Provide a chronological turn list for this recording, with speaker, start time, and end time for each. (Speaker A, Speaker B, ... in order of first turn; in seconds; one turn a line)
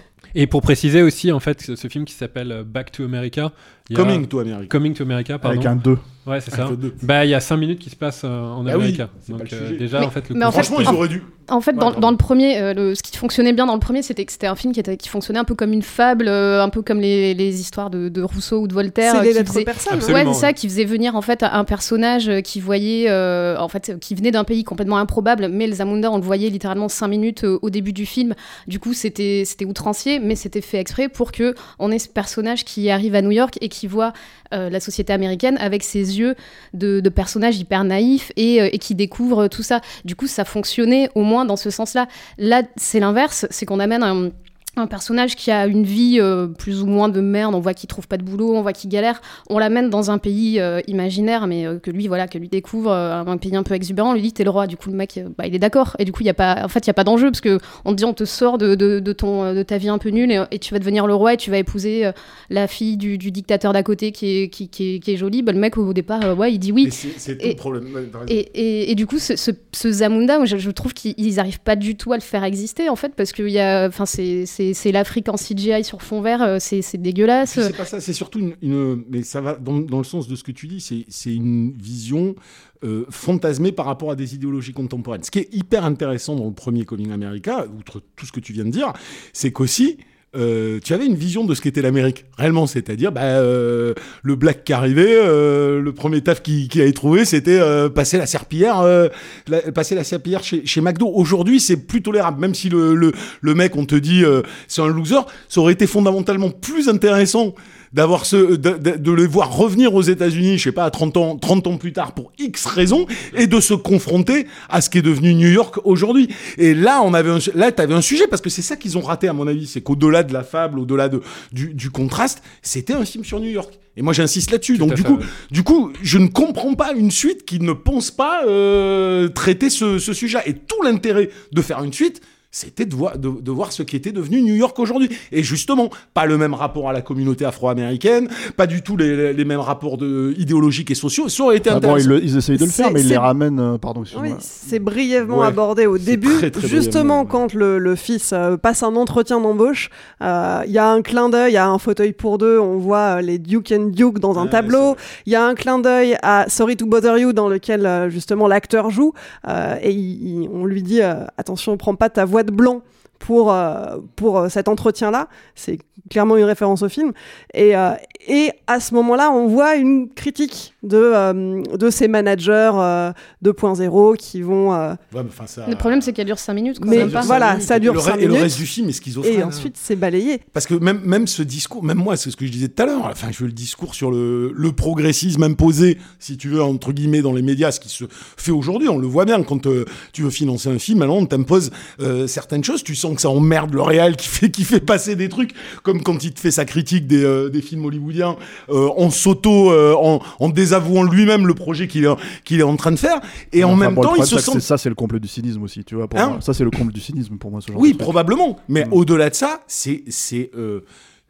Speaker A: 0.3-5.7
Speaker B: 3.9-4.7
Speaker C: 5.4-6.0
Speaker A: 6.2-11.0
Speaker B: 6.5-7.0
Speaker B: 8.7-9.9
Speaker D: 10.0-67.6
Speaker B: 10.4-12.1
Speaker E: 19.0-20.2
Speaker A: 19.9-20.5
Speaker B: 66.8-68.3
Speaker D: 68.3-77.7
Speaker B: 77.4-142.1
Speaker A: 124.7-125.3
Speaker C: 141.7-144.4
Speaker E: 142.6-143.3
Speaker E: 144.1-175.0
Speaker B: 145.2-147.4
Speaker B: 154.3-155.0
Speaker B: 175.1-176.1
Speaker D: 175.7-177.4
Speaker E: 176.8-178.6
Speaker B: 176.9-179.7
Speaker E: 179.2-180.4
Speaker B: 180.5-204.6
Speaker C: 203.6-208.1
Speaker B: 206.1-206.4
Speaker B: 207.7-210.8